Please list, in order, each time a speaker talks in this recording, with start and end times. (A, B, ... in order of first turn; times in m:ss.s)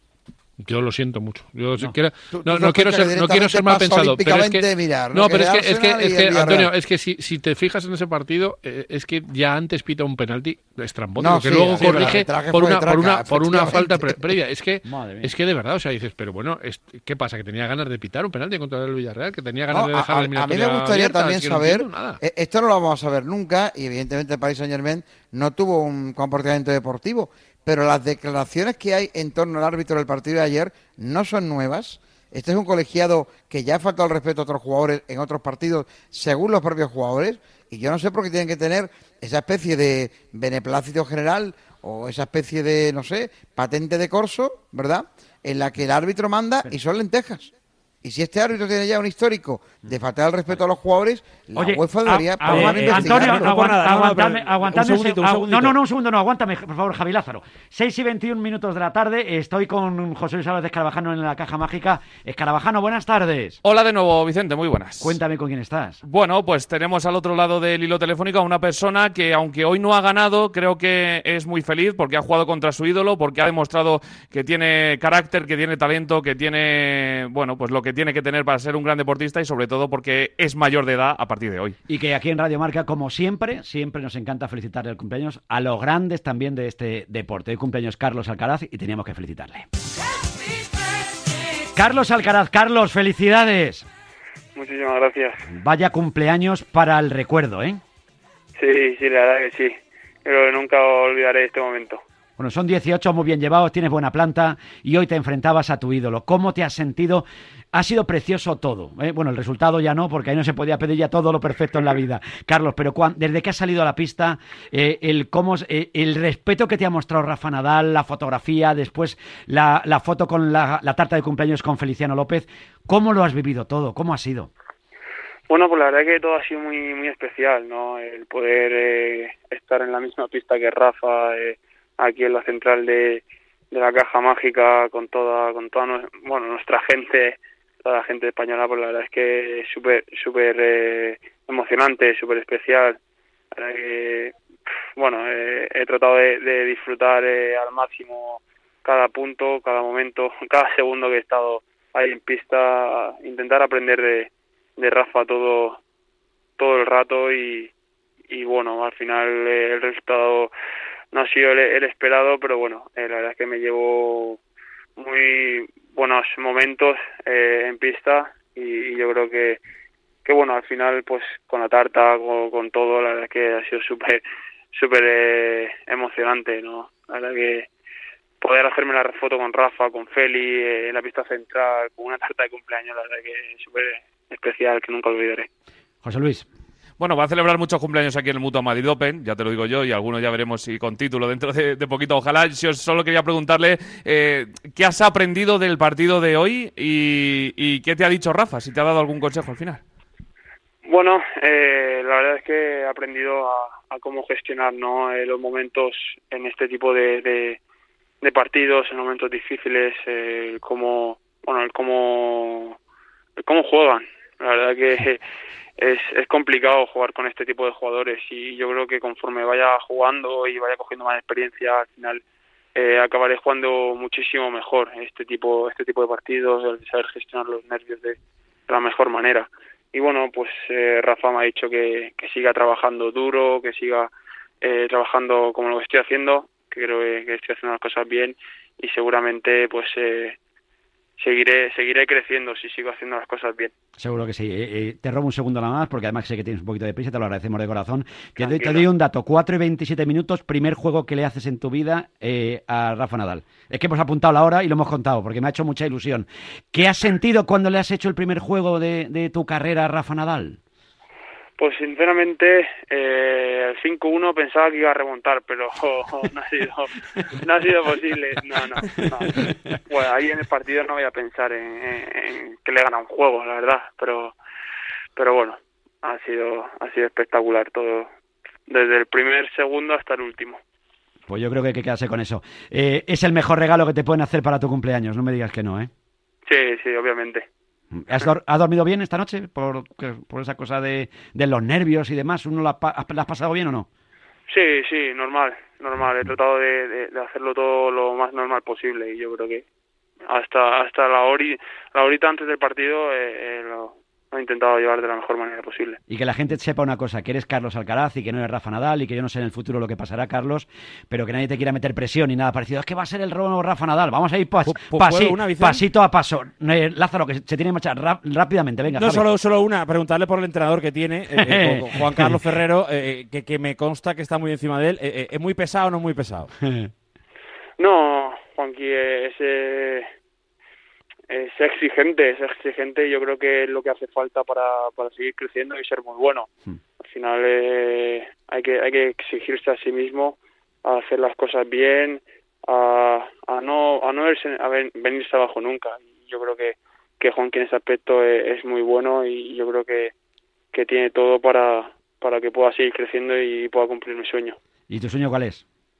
0:00.6-0:22.2 A
0:02.3-0:06.7 B
0:11.2-0:14.2 B
0:14.8-0:15.3 C
0:19.7-0:47.5 B
0:48.0-0:53.5 B
0:51.6-1:03.6 C
0:52.4-0:55.8 D
1:03.6-1:05.2 E
1:05.0-1:06.0 C
1:06.0-1:21.8 E
1:21.9-1:29.7 C
1:31.8-1:33.8 C
1:34.6-1:35.4 F
1:35.5-1:37.8 C
1:38.6-1:42.0 F
1:42.4-2:04.5 C
2:05.5-2:23.0 F
2:23.5-2:24.3 F
2:25.0-2:35.8 F
2:36.6-2:37.7 F
2:38.3-2:40.5 F
2:41.1-2:44.4 F
2:45.0-2:49.6 F
2:50.2-2:54.2 F
2:54.7-2:57.7 F
2:58.4-3:05.5 F
3:06.0-3:06.5 C
3:07.0-3:19.8 E
3:20.8-3:27.6 F
3:28.2-3:32.8 F
3:33.4-3:35.2 F
3:35.8-3:42.2 F
3:42.7-3:48.2 F
3:48.7-3:54.1 F
3:54.6-4:00.4 F
4:01.2-4:03.7 F
4:04.0-4:20.6 C
4:08.4-4:08.8 F
4:21.6-4:26.9 F
4:27.4-4:34.3 F
4:35.2-4:38.1 F
4:38.7-4:40.6 F
4:41.3-4:45.9 C
4:46.5-4:47.4 F
4:47.9-4:53.9 C
4:54.5-4:59.6 F
5:00.3-5:06.0 F
5:06.1-5:19.2 C
5:14.6-5:15.8 D
5:18.9-5:26.5 D
5:21.4-5:22.4 C
5:26.6-5:26.9 C
5:27.8-5:30.1 F
5:31.3-5:36.5 F
5:37.0-5:50.1 F
5:50.7-5:54.6 F
5:54.9-5:55.6 C